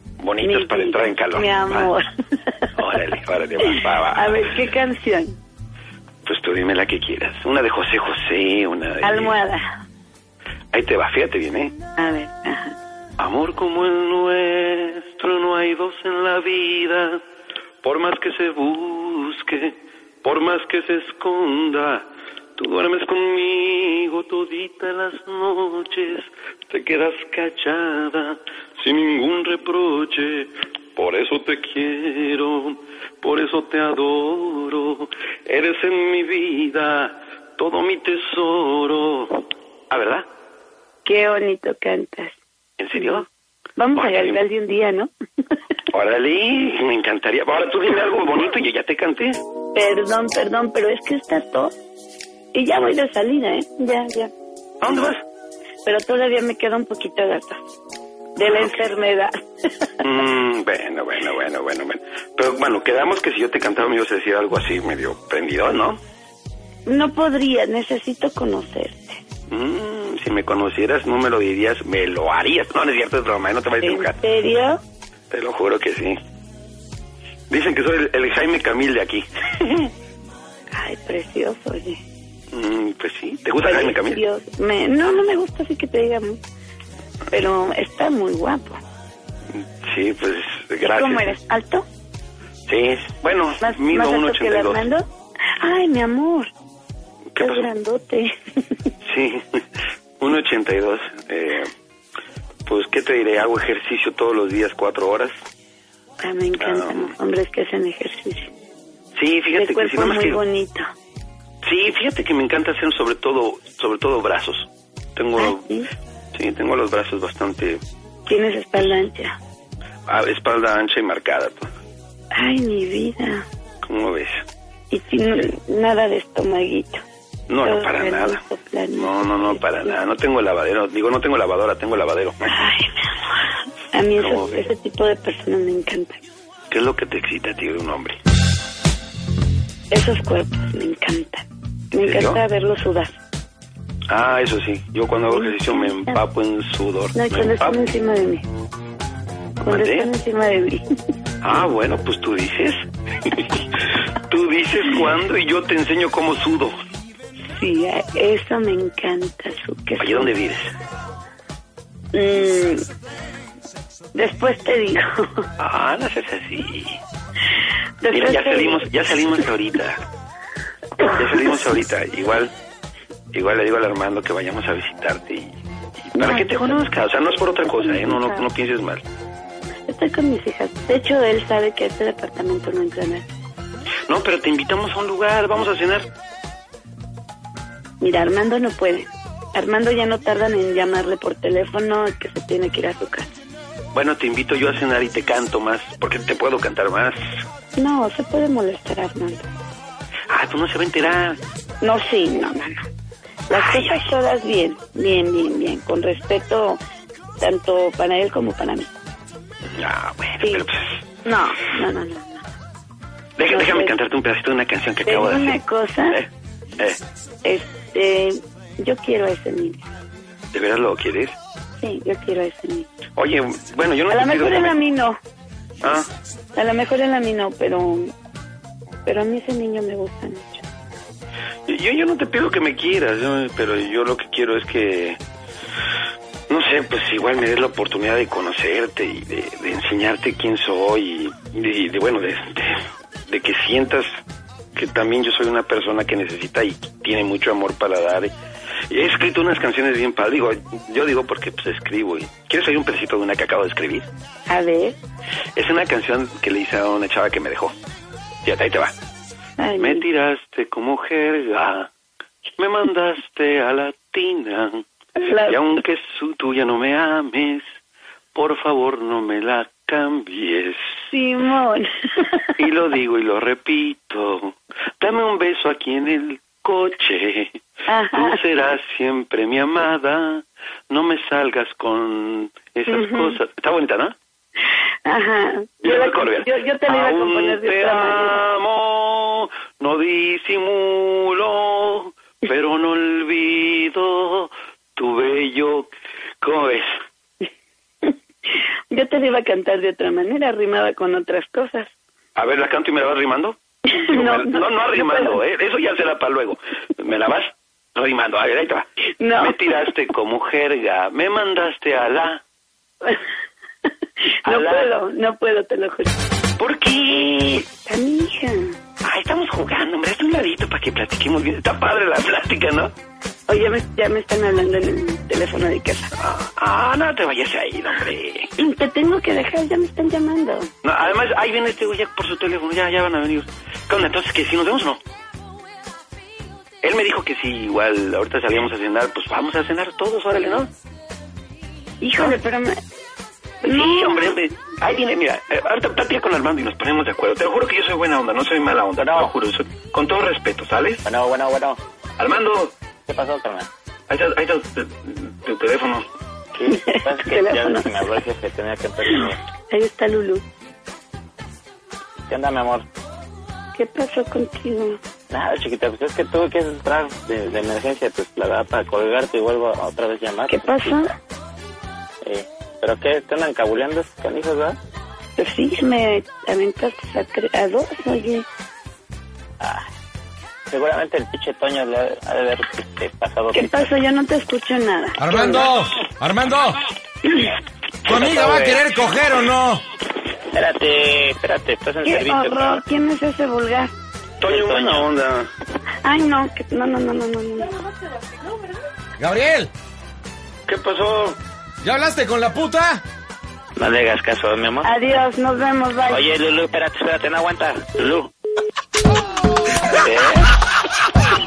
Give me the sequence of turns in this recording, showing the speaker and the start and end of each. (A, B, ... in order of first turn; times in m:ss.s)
0:00.2-0:01.9 A
0:00.4-0:02.8 B
0:02.8-0:04.5 A
0:03.6-0:05.4 B
0:06.2-0:09.3 A
0:09.0-0:09.7 B
0:10.7-0:11.7 A
0:12.0-0:12.7 B
0:13.2-0:17.2 A
0:17.8-0:40.3 A
0:41.0-0:42.4 B
0:42.8-0:43.2 A
0:43.0-0:43.2 B
0:43.8-0:45.1 B
0:43.9-0:44.4 A
0:45.9-0:49.4 A
0:49.7-0:51.7 B
0:52.5-0:54.3 B
0:54.8-0:55.2 A
0:55.8-0:57.6 B
0:58.4-0:59.9 B
0:58.4-0:58.8 A
1:00.0-1:06.0 A
1:06.9-1:09.2 B
1:09.5-1:14.2 A
1:13.8-1:14.8 B
1:15.3-1:16.2 A
1:17.5-1:19.9 A
1:20.7-1:22.0 B
1:22.5-1:24.2 A
1:23.6-1:26.4 B
1:27.3-1:28.8 B
1:29.8-1:31.3 A
1:30.8-1:31.8 B
1:32.7-1:34.9 A
1:33.6-1:35.1 B
1:35.6-1:36.5 B
1:37.3-1:37.7 A
1:37.4-1:38.3 B
1:39.0-1:39.6 A
1:40.2-1:41.7 A
1:42.6-1:45.4 A
1:46.2-1:48.5 B
1:46.6-1:47.1 A
1:49.2-1:50.4 A
1:49.6-1:50.9 B
1:51.6-1:55.7 A
1:55.4-1:55.9 B
1:56.3-1:57.8 A
1:58.3-1:59.4 B
2:00.1-2:01.7 A
2:02.3-2:03.4 B
2:03.8-2:04.4 A
2:04.9-2:07.0 B
2:07.5-2:08.4 A
2:07.6-2:10.0 B
2:08.9-2:12.5 A
2:12.4-2:16.2 B
2:14.2-2:14.5 A
2:16.7-2:18.2 A
2:19.9-2:23.1 B
2:22.0-2:22.4 A
2:24.1-2:27.8 A
2:25.3-2:26.2 B
2:27.1-2:28.4 B
2:29.6-2:30.1 A
2:29.6-2:30.8 B
2:31.4-2:33.5 A
2:34.3-2:36.8 A
2:37.5-2:40.3 B
2:40.0-2:40.7 A
2:42.1-2:42.8 B
2:44.1-2:45.5 B
2:45.6-2:47.0 A
2:48.0-2:48.9 B
2:48.1-2:50.0 A
2:51.0-2:52.5 A
2:53.3-2:55.5 A
2:56.1-2:59.0 A
2:56.2-2:56.8 B
2:57.7-2:58.4 B
2:59.9-3:03.2 B
3:04.1-3:06.1 A
3:08.0-3:13.3 B
3:13.9-3:17.3 A
3:17.8-3:19.5 B
3:20.3-3:21.4 A
3:21.8-3:22.8 B
3:23.5-3:26.8 B
3:23.5-3:24.1 A
3:27.4-3:28.9 B
3:29.8-3:31.0 A
3:30.4-3:30.7 B
3:31.2-3:32.4 B
3:33.4-3:37.0 A
3:33.4-3:34.0 B
3:35.0-3:36.2 B
3:37.4-3:39.9 B
3:40.5-3:41.4 A
3:41.8-3:42.9 B
3:43.2-3:44.8 A
3:44.1-3:45.2 B
3:45.8-3:46.1 A
3:46.5-3:48.1 B
3:49.0-3:50.6 B
3:51.7-3:55.2 A
3:56.5-4:04.2 A
4:04.7-4:08.3 A
4:08.9-4:14.1 A
4:14.5-4:15.0 B
4:15.6-4:17.7 A
4:18.4-4:18.9 A
4:19.6-4:20.0 B
4:19.8-4:21.9 A
4:22.6-4:27.6 A
4:25.2-4:25.8 B
4:28.3-4:30.9 A
4:31.1-4:32.5 B
4:32.6-4:37.6 A
4:37.9-4:38.4 B
4:38.1-4:44.1 A
4:42.9-4:43.4 B
4:45.0-4:48.4 B
4:45.8-4:55.9 A
4:56.4-4:57.0 A
4:58.9-5:01.9 B
5:02.4-5:12.4 A
5:03.9-5:05.4 B
5:09.2-5:09.6 B
5:14.2-5:16.1 B
5:14.4-5:14.9 A
5:16.6-5:17.7 A
5:17.8-5:18.8 B
5:19.0-5:22.9 A
5:23.5-5:26.1 B
5:26.2-5:28.5 A
5:28.6-5:30.7 B
5:30.8-5:35.0 A
5:36.8-5:40.7 A
5:42.0-5:42.8 B
5:43.6-5:44.4 B
5:43.6-5:51.0 A
5:49.0-5:49.3 C
5:51.0-5:51.8 C
5:52.2-5:52.7 A
5:53.1-5:53.7 C
5:54.1-5:56.0 A
5:56.5-5:59.4 C
5:56.7-5:57.9 B
5:59.1-6:00.4 B
6:02.3-6:02.8 C
6:03.7-6:05.0 B
6:05.3-6:11.0 C
6:10.5-6:11.1 B
6:12.2-6:14.8 C
6:15.4-6:18.4 B
6:19.6-6:19.9 C
6:20.7-6:23.9 C
6:23.5-6:25.7 B
6:25.2-6:26.8 D
6:28.0-6:29.8 D
6:28.0-6:28.8 C
6:30.5-6:32.8 C
6:32.0-6:33.9 B
6:34.4-6:35.5 A
6:34.4-6:35.1 C
6:36.0-6:37.7 B
6:39.2-6:39.7 D
6:40.7-6:41.4 A
6:41.8-6:43.0 D
6:43.8-6:44.9 C
6:44.8-6:46.2 B
6:46.1-6:48.3 C
6:49.9-6:50.5 C